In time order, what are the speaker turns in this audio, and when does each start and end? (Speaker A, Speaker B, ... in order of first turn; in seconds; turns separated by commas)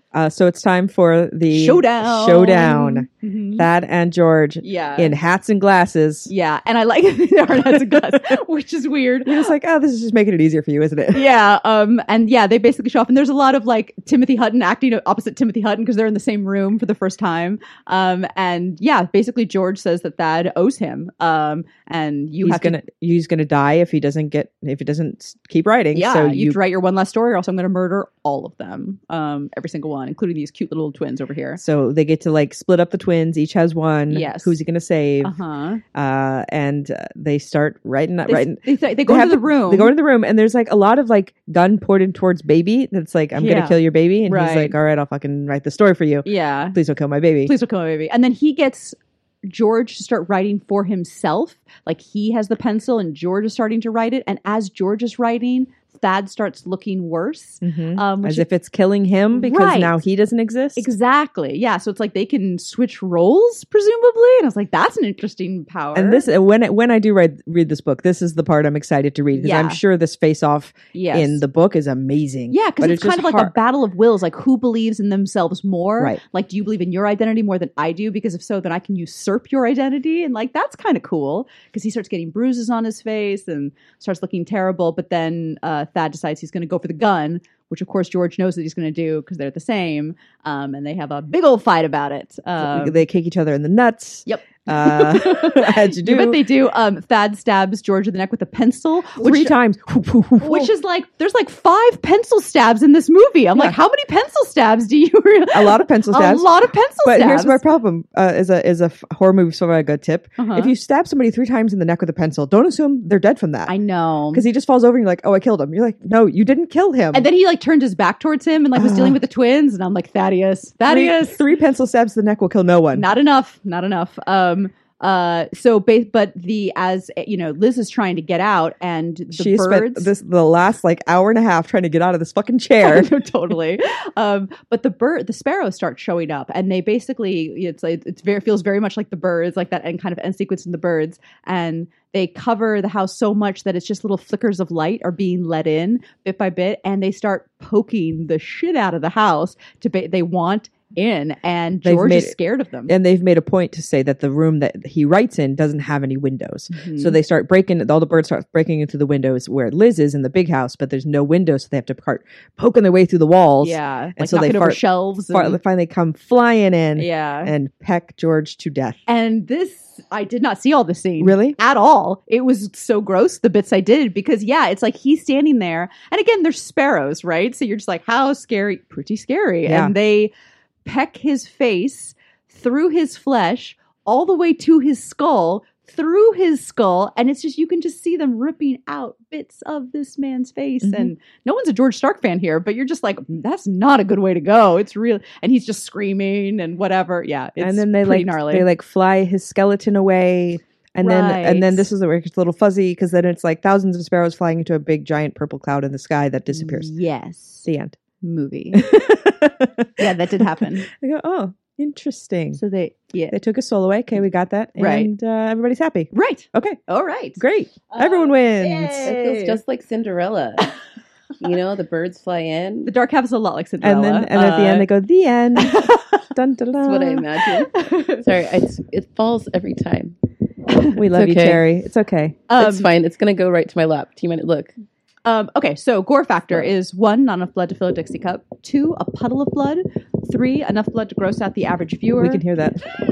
Speaker A: 0.1-6.3, Speaker B: 1.5-3.6, Speaker B: 4.6-5.2, Speaker B: 6.3-9.4, Speaker A: 9.2-11.3, Speaker B: 11.1-22.8, Speaker A: 22.4-26.6, Speaker B: 25.9-31.6, Speaker A: 31.6-35.4, Speaker B: 34.1-34.6, Speaker B: 35.2-35.8, Speaker A: 35.9-47.5, Speaker B: 38.3-39.9, Speaker B: 43.3-44.7, Speaker B: 46.2-46.8, Speaker B: 47.4-58.5, Speaker A: 57.6-60.9, Speaker B: 59.3-60.0, Speaker B: 60.8-66.2, Speaker A: 65.9-73.5, Speaker B: 69.3-69.8, Speaker B: 70.9-71.4, Speaker B: 72.5-93.0, Speaker A: 92.6-96.4, Speaker B: 94.2-99.6, Speaker A: 99.2-100.7, Speaker B: 100.4-107.6, Speaker A: 105.5-106.5, Speaker A: 107.0-113.7, Speaker B: 110.4-110.7, Speaker B: 113.7-114.4, Speaker A: 114.3-117.2, Speaker B: 117.1-121.4, Speaker A: 118.8-119.2, Speaker A: 120.8-123.1, Speaker B: 122.9-130.1, Speaker A: 129.3-133.1, Speaker B: 132.8-152.9, Speaker A: 151.8-152.3, Speaker A: 152.9-169.0, Speaker B: 156.7-157.2, Speaker B: 163.6-165.6, Speaker B: 167.0-167.5, Speaker B: 169.1-180.3, Speaker A: 171.2-171.6, Speaker A: 179.6-179.9, Speaker B: 180.8-198.7, Speaker A: 190.8-191.1, Speaker A: 197.6-206.9, Speaker B: 201.0-201.9, Speaker B: 206.5-207.7, Speaker A: 207.6-208.0, Speaker B: 208.2-209.1, Speaker A: 208.7-212.6, Speaker B: 210.0-210.9, Speaker B: 212.6-213.3, Speaker A: 213.3-216.8, Speaker B: 214.8-215.1, Speaker B: 216.1-219.6, Speaker A: 217.4-219.1, Speaker C: 218.9-220.8, Speaker C: 221.4-222.9, Speaker B: 222.8-224.9, Speaker A: 223.8-227.2, Speaker B: 225.6-226.2, Speaker C: 226.8-230.2, Speaker B: 227.4-228.4, Speaker B: 230.7-231.0, Speaker A: 230.9-232.5, Speaker C: 231.1-231.6, Speaker B: 232.5-232.9, Speaker C: 232.6-234.7, Speaker B: 235.2-242.4, Speaker A: 242.2-242.9